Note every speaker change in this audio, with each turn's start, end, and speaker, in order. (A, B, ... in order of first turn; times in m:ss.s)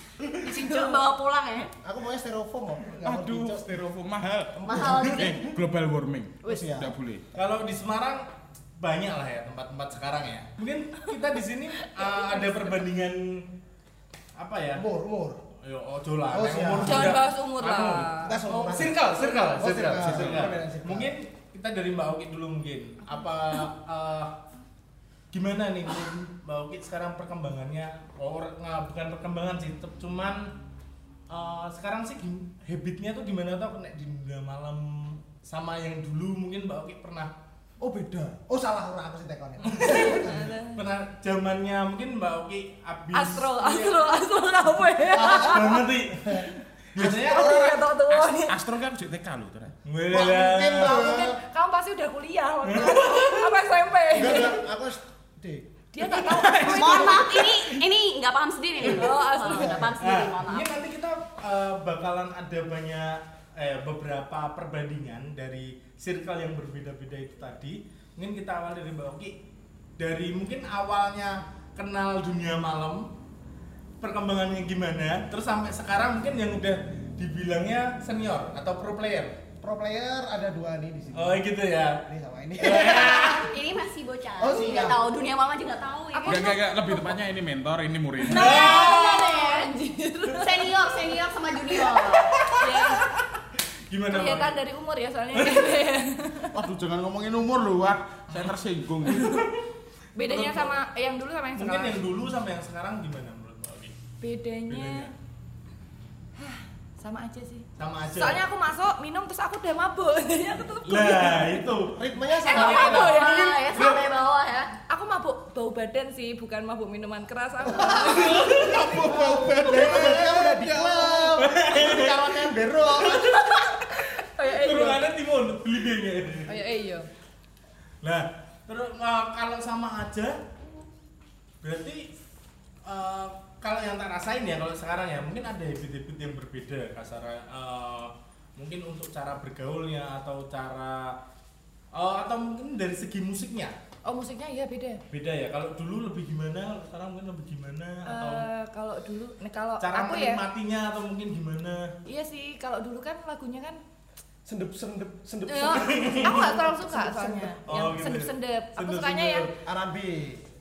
0:00.4-0:01.7 A
0:00.6-0:01.0 B
0:01.8-0:03.8 C
0:03.0-0:07.2 D
0:04.6-0:05.5 C
0:04.7-0:05.4 A
0:06.4-0:06.7 A
0:06.4-0:06.9 C
0:07.3-0:08.2 E
0:08.8-0:13.5 E
0:12.0-0:12.7 B
0:14.4-0:14.8 E
0:14.8-0:15.4 C
0:15.6-0:24.4 E
0:16.3-0:17.2 C
0:16.8-0:18.4 B
0:18.2-0:21.1 C
0:20.0-0:20.5 D
0:25.3-0:30.5 E
0:31.3-0:37.3 E
0:37.8-0:40.6 C
0:39.6-0:44.0 E
0:40.1-0:40.8 B
0:43.1-0:45.8 B
0:45.1-0:47.8 E
0:45.2-0:47.8 C
0:47.1-0:48.6 B
0:48.1-0:49.7 D
0:49.8-0:51.2 E
0:50.1-0:51.4 C
0:50.8-0:54.6 B
0:52.6-0:53.6 E
0:54.1-0:55.7 C
0:55.9-0:57.3 B
0:56.0-0:57.8 E
0:56.6-1:00.8 A
0:58.8-1:00.0 C
0:58.8-0:59.9 B
1:00.0-1:09.4 E
1:10.0-1:13.1 E
1:14.0-1:19.4 E
1:19.6-1:21.4 C
1:21.1-1:22.0 E
1:22.0-1:23.4 C
1:22.6-1:23.5 E
1:22.7-1:26.5 A
1:24.4-1:25.0 C
1:26.1-1:27.1 B
1:26.3-1:28.8 D
1:28.3-1:30.6 B
1:28.3-1:29.2 E
1:28.3-1:29.7 A
1:30.3-1:32.3 A
1:32.2-1:33.0 E
1:32.5-1:33.4 B
1:33.9-1:34.6 E
1:34.1-1:36.6 B
1:35.3-1:35.7 E
1:36.5-1:39.5 D
1:39.1-1:39.6 E
1:40.2-1:42.0 B
1:40.2-1:40.8 E
1:41.5-1:44.0 E
1:44.2-1:45.1 B
1:44.7-1:45.1 E
1:46.4-1:51.6 B
1:47.8-1:48.4 E
1:50.9-1:52.0 E
1:51.9-1:53.2 C
1:52.4-1:53.6 B
1:52.4-1:54.7 A
1:52.5-1:54.0 E
1:54.9-1:58.9 B
1:57.7-2:03.3 C
1:57.9-2:00.3 E
1:58.6-2:01.4 D
2:01.4-2:02.4 E
2:03.2-2:06.6 E
2:04.2-2:05.0 B
2:06.5-2:07.0 B
2:08.0-2:10.4 E
2:11.6-2:12.1 E
2:12.8-2:21.2 E
2:21.9-2:23.8 E
2:24.0-2:25.0 B
2:25.1-2:28.5 E
2:28.0-2:30.4 B
2:29.8-2:31.9 E
2:32.0-2:33.8 B
2:34.4-2:37.6 C
2:35.5-2:39.5 B
2:35.7-2:36.5 E
2:37.7-2:39.5 E
2:39.5-2:40.4 C